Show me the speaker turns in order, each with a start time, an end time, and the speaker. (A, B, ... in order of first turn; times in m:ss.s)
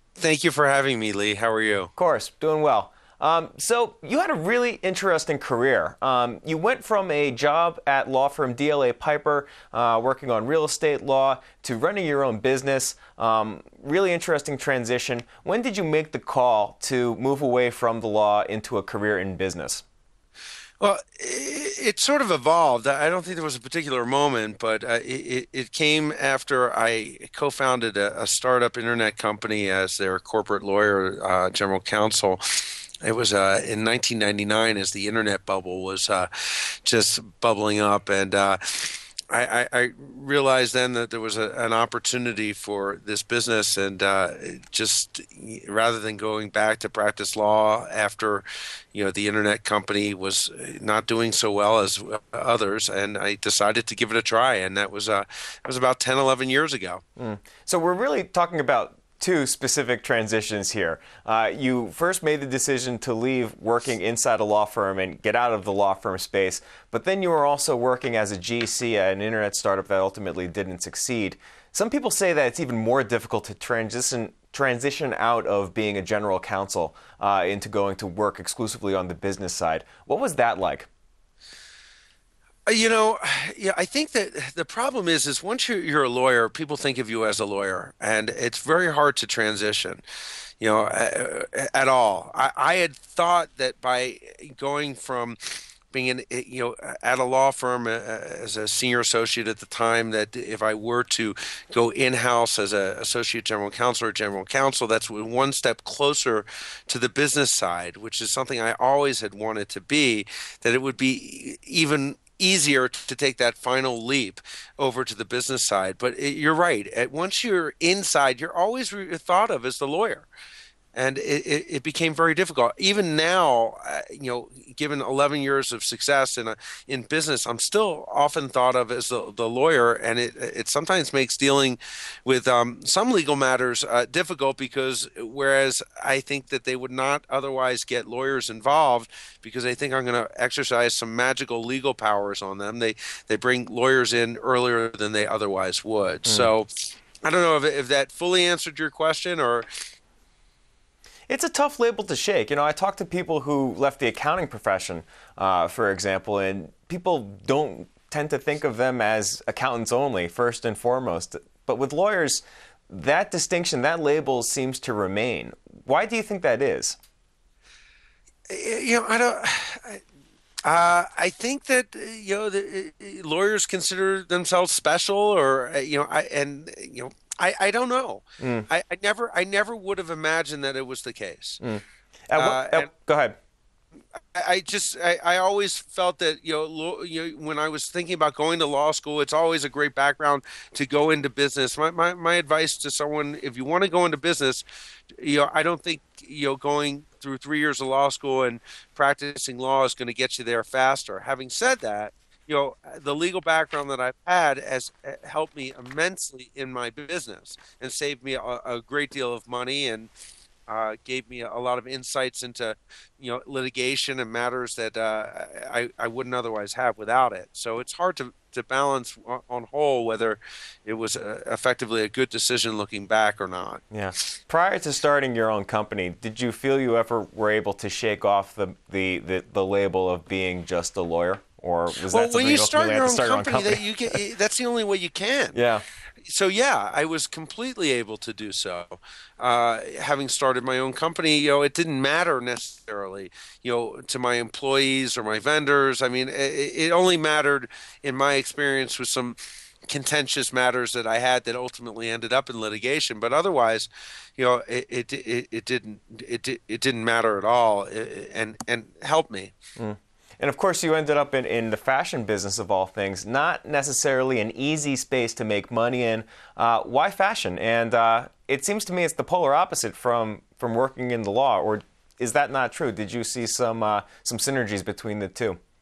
0:00.2-0:01.9 A
0:02.0-0:19.8 B
0:20.8-0:57.0 A
0:57.2-1:20.9 B
1:22.7-1:30.0 A
1:30.6-2:00.3 A
2:01.0-2:29.7 A
2:31.3-2:47.0 B
2:48.5-2:50.0 A
2:50.6-3:01.6 A
2:58.4-2:58.7 B
3:01.6-3:03.4 B
3:02.4-3:02.9 A
3:04.1-3:14.6 A
3:15.2-3:30.1 A
3:30.7-3:43.8 A
3:43.9-3:54.2 B
3:52.0-3:55.6 A
3:55.5-3:55.8 B
3:56.2-4:19.6 A
4:19.8-4:35.6 B